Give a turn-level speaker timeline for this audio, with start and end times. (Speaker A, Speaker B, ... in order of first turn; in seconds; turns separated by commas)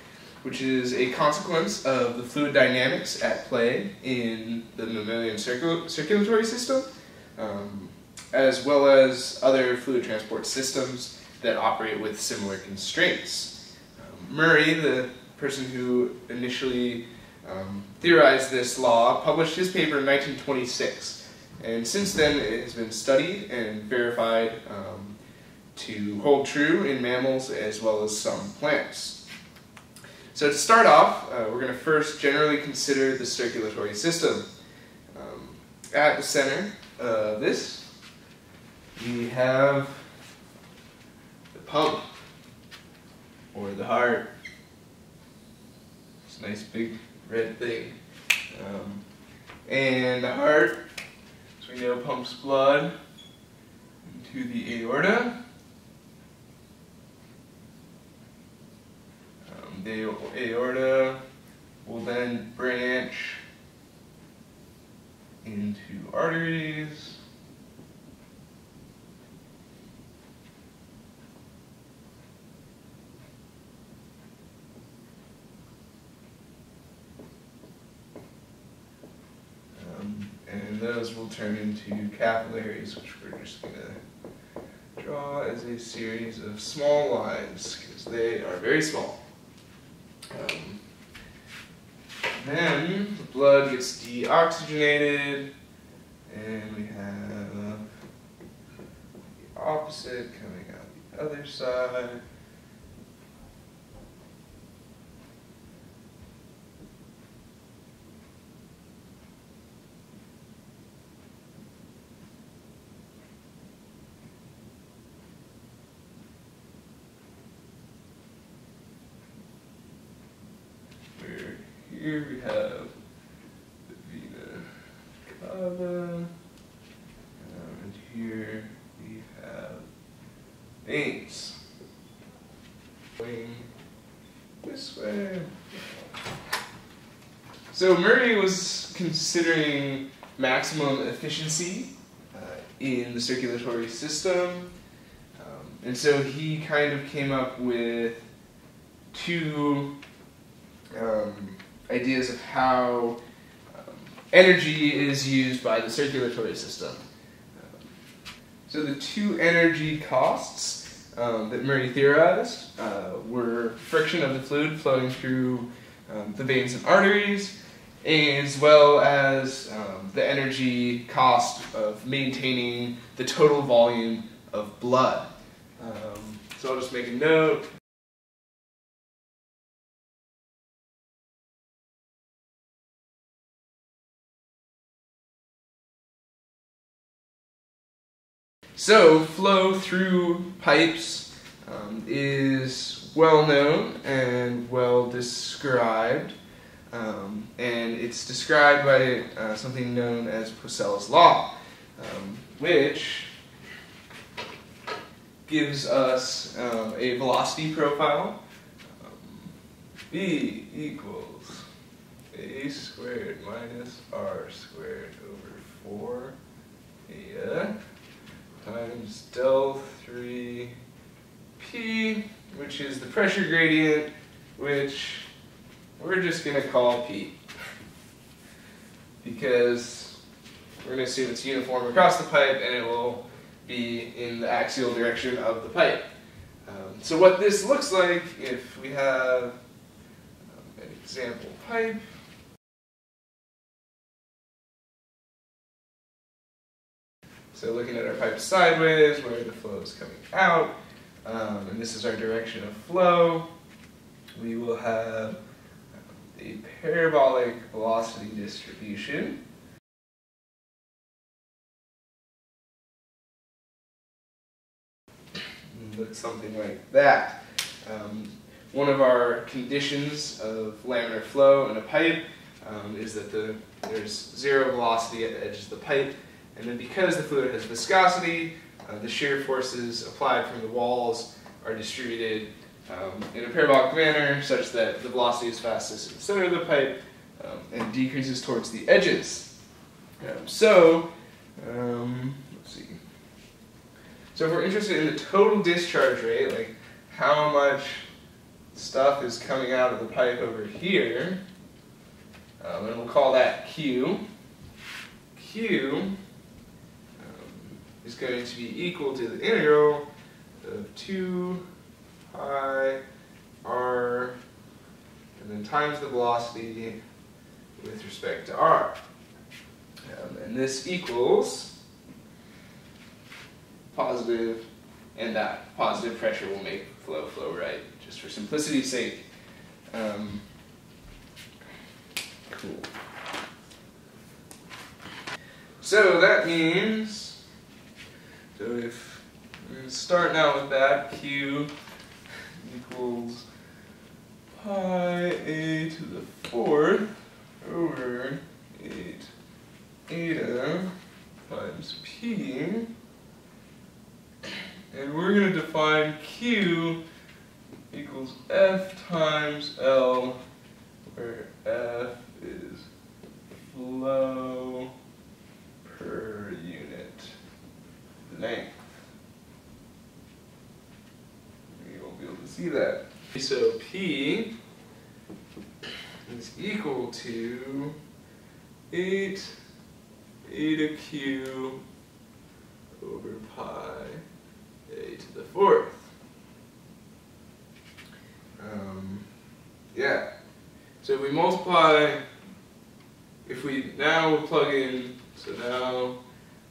Speaker A: 0.4-25.2, Speaker A: 25.8-29.2, Speaker A: 30.3-34.5, Speaker A: 35.1-37.9, Speaker A: 39.0-40.1, Speaker A: 41.5-42.1, Speaker A: 43.5-44.3, Speaker A: 46.2-48.0, Speaker A: 48.5-49.0, Speaker A: 49.7-50.8, Speaker A: 51.6-52.9, Speaker A: 54.0-55.4, Speaker A: 59.4-61.2, Speaker A: 61.8-63.4, Speaker A: 65.4-67.2, Speaker A: 79.8-84.0, Speaker A: 85.0-89.2, Speaker A: 90.3-90.8, Speaker A: 92.3-95.5, Speaker A: 96.3-97.8, Speaker A: 99.5-102.2, Speaker A: 121.1-122.9, Speaker A: 123.9-126.3, Speaker A: 127.4-129.8, Speaker A: 130.8-131.6, Speaker A: 133.2-133.7, Speaker A: 134.6-136.0, Speaker A: 137.7-144.7, Speaker A: 145.4-148.2, Speaker A: 149.1-149.9, Speaker A: 150.9-153.2, Speaker A: 153.7-157.9, Speaker A: 158.7-177.7, Speaker A: 188.7-196.3, Speaker A: 196.9-203.3, Speaker A: 205.4-208.4, Speaker A: 208.9-209.6, Speaker A: 210.1-211.7, Speaker A: 212.3-216.3, Speaker A: 217.1-217.7, Speaker A: 218.6-220.8, Speaker A: 221.6-225.3, Speaker A: 226.0-227.4, Speaker A: 229.2-230.2, Speaker A: 230.8-236.1, Speaker A: 236.7-239.6, Speaker A: 240.5-242.1, Speaker A: 247.5-253.5, Speaker A: 254.3-255.4, Speaker A: 256.3-259.4, Speaker A: 265.7-289.5, Speaker A: 290.2-293.0, Speaker A: 294.3-298.1, Speaker A: 298.7-301.4, Speaker A: 302.6-304.2, Speaker A: 305.3-306.1, Speaker A: 307.2-310.1, Speaker A: 310.6-311.6, Speaker A: 312.3-313.0, Speaker A: 313.6-314.4, Speaker A: 315.4-317.0, Speaker A: 317.8-319.0, Speaker A: 320.1-321.8, Speaker A: 323.9-329.2, Speaker A: 329.9-330.4, Speaker A: 332.5-332.9, Speaker A: 335.8-337.4, Speaker A: 338.6-341.7, Speaker A: 342.6-343.5, Speaker A: 344.5-349.3, Speaker A: 350.1-350.9, Speaker A: 351.5-352.9, Speaker A: 354.9-357.0, Speaker A: 357.9-360.4, Speaker A: 361.1-362.9, Speaker A: 363.5-364.9, Speaker A: 365.8-367.4, Speaker A: 368.2-369.1, Speaker A: 371.7-374.6, Speaker A: 376.2-378.0, Speaker A: 378.9-379.6, Speaker A: 380.4-381.8, Speaker A: 383.0-384.2, Speaker A: 384.9-386.1, Speaker A: 388.6-389.3, Speaker A: 389.9-390.2, Speaker A: 391.0-392.2, Speaker A: 393.4-396.2